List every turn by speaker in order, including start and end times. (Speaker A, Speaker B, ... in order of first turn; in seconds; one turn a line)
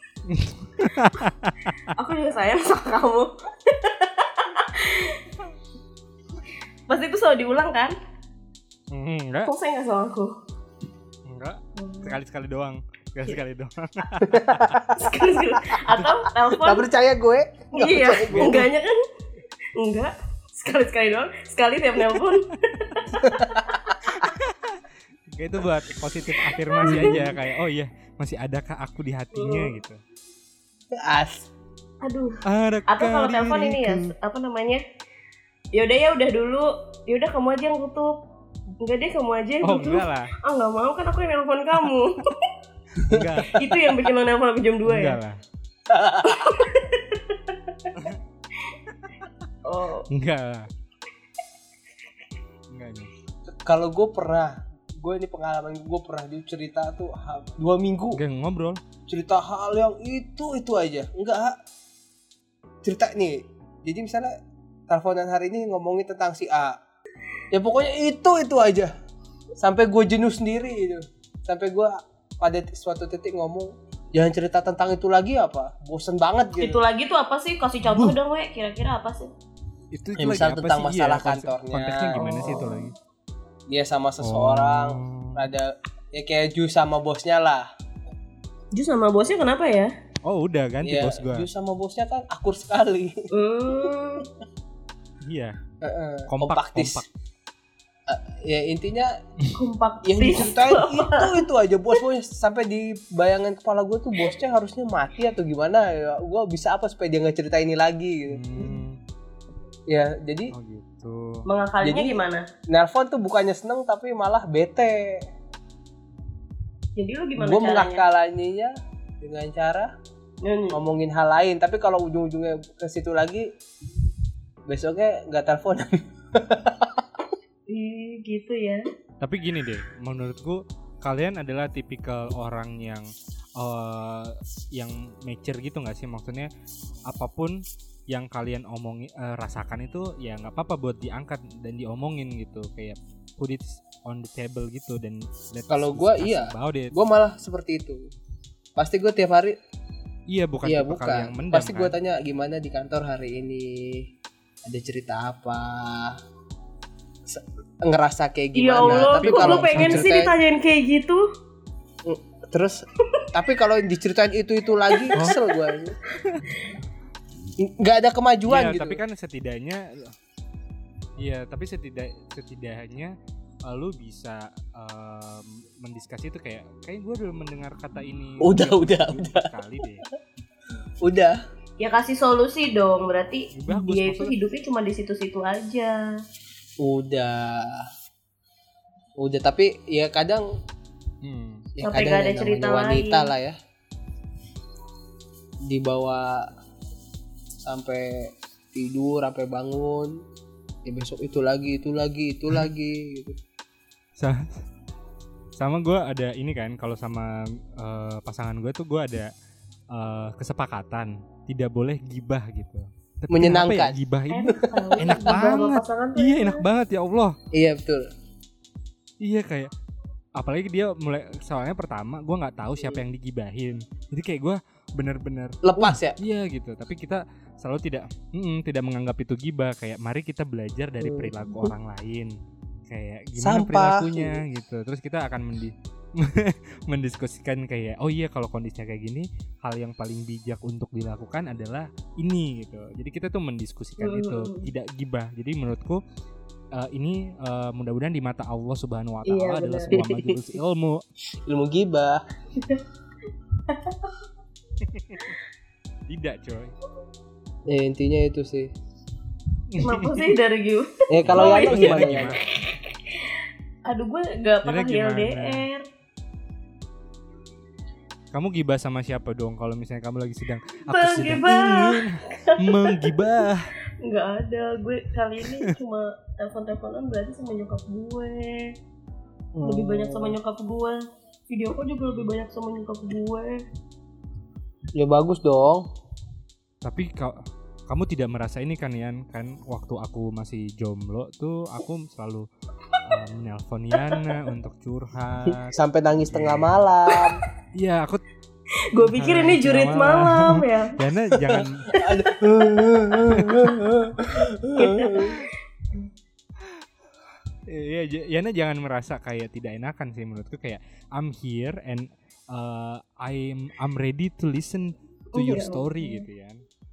Speaker A: 0.3-1.8
Speaker B: 1.9-5.2
Speaker B: 6.9-8.0
Speaker A: 8.9-9.5
Speaker B: 9.4-10.4
Speaker A: 11.3-14.8
Speaker B: 11.8-12.2
Speaker C: 14.2-15.8
Speaker B: 14.9-16.9
Speaker C: 16.6-18.7
Speaker B: 17.7-18.9
Speaker A: 18.3-18.7
Speaker B: 19.8-23.1
Speaker C: 23.2-24.1
Speaker A: 24.1-24.8
Speaker A: 25.3-30.0
Speaker B: 26.5-27.2
Speaker C: 26.8-27.4
Speaker B: 29.3-29.7
Speaker C: 31.0-31.5
Speaker B: 32.0-34.8
Speaker A: 32.5-34.1
Speaker B: 35.7-38.2
Speaker B: 38.8-42.5
Speaker A: 39.6-40.3
Speaker A: 43.0-43.8
Speaker C: 43.0-43.4
Speaker B: 43.5-45.2
Speaker A: 44.9-45.4
Speaker C: 45.9-46.6
Speaker B: 46.2-48.0
Speaker B: 49.6-50.1
Speaker A: 50.1-50.7
Speaker A: 52.7-53.1
Speaker C: 53.6-58.2
Speaker A: 58.2-58.8
Speaker C: 59.1-61.6
Speaker C: 62.8-64.3
Speaker C: 64.9-66.8
Speaker C: 67.5-68.9
Speaker C: 69.6-76.8
Speaker B: 76.6-79.3
Speaker A: 77.8-78.2
Speaker A: 79.9-83.0
Speaker C: 80.2-82.7
Speaker B: 82.2-82.9
Speaker C: 83.7-87.7
Speaker A: 84.2-85.5
Speaker B: 88.7-89.9
Speaker A: 90.2-91.5
Speaker C: 90.8-93.2
Speaker B: 93.3-94.3
Speaker A: 95.3-95.5
Speaker C: 95.8-97.0
Speaker A: 96.3-97.1
Speaker C: 98.1-99.2
Speaker B: 99.5-101.4
Speaker C: 100.0-108.8
Speaker A: 108.3-109.0
Speaker C: 109.9-110.5
Speaker A: 110.5-111.4
Speaker B: 111.5-112.5
Speaker C: 111.8-112.2
Speaker C: 112.7-115.2
Speaker B: 117.0-118.0
Speaker C: 117.4-119.9
Speaker B: 120.4-120.8
Speaker C: 120.7-123.5
Speaker C: 124.7-127.0
Speaker B: 127.7-128.8
Speaker A: 129.2-133.1
Speaker A: 133.6-136.5
Speaker A: 137.1-146.9
Speaker C: 145.7-148.1
Speaker C: 148.8-149.6
Speaker A: 150.3-151.9
Speaker C: 150.6-154.1
Speaker C: 154.7-156.2
Speaker C: 157.3-160.3
Speaker B: 158.6-161.2
Speaker A: 158.8-160.1
Speaker C: 162.1-162.8
Speaker C: 163.3-166.0
Speaker B: 164.9-165.4
Speaker A: 166.2-166.5
Speaker C: 167.6-169.0
Speaker A: 168.5-170.1
Speaker A: 171.2-173.1
Speaker A: 173.7-180.1
Speaker C: 178.4-179.5
Speaker C: 181.0-181.4
Speaker B: 181.8-186.0
Speaker A: 183.5-184.3
Speaker C: 186.8-187.8
Speaker C: 189.2-190.4
Speaker A: 191.2-191.7
Speaker C: 191.8-193.6
Speaker B: 191.8-193.3
Speaker C: 195.7-196.5
Speaker C: 197.7-200.2
Speaker C: 200.8-203.4
Speaker A: 204.2-204.6
Speaker A: 205.6-209.3
Speaker A: 209.9-217.4
Speaker C: 213.3-214.0
Speaker B: 214.3-216.6
Speaker C: 214.5-215.3
Speaker C: 217.5-218.1
Speaker A: 219.2-219.7
Speaker A: 220.4-232.3
Speaker C: 225.6-226.2
Speaker C: 231.0-231.7
Speaker A: 232.9-246.0
Speaker C: 233.4-234.4
Speaker B: 244.0-244.7
Speaker A: 246.8-251.0
Speaker B: 249.3-250.3
Speaker C: 251.5-252.2
Speaker B: 252.6-252.8
Speaker B: 253.7-254.1
Speaker A: 254.8-255.4
Speaker A: 256.1-256.7
Speaker C: 257.7-258.7
Speaker A: 259.7-260.3
Speaker B: 259.8-262.1
Speaker C: 261.1-262.4
Speaker A: 261.2-262.4
Speaker B: 263.9-265.8
Speaker A: 264.6-265.7
Speaker A: 268.3-273.7
Speaker B: 270.9-273.0
Speaker B: 274.0-278.7
Speaker A: 275.4-275.7
Speaker C: 279.6-280.4
Speaker B: 279.6-283.6
Speaker A: 282.1-282.3
Speaker C: 284.9-285.8
Speaker A: 286.8-287.4
Speaker A: 287.9-292.5
Speaker A: 293.0-295.8
Speaker C: 295.7-297.4
Speaker A: 296.3-296.7
Speaker A: 297.7-298.2
Speaker B: 298.9-302.0
Speaker A: 299.0-301.9
Speaker C: 301.9-305.4
Speaker A: 303.3-303.7
Speaker B: 304.8-306.1
Speaker A: 307.7-316.6
Speaker B: 315.3-316.2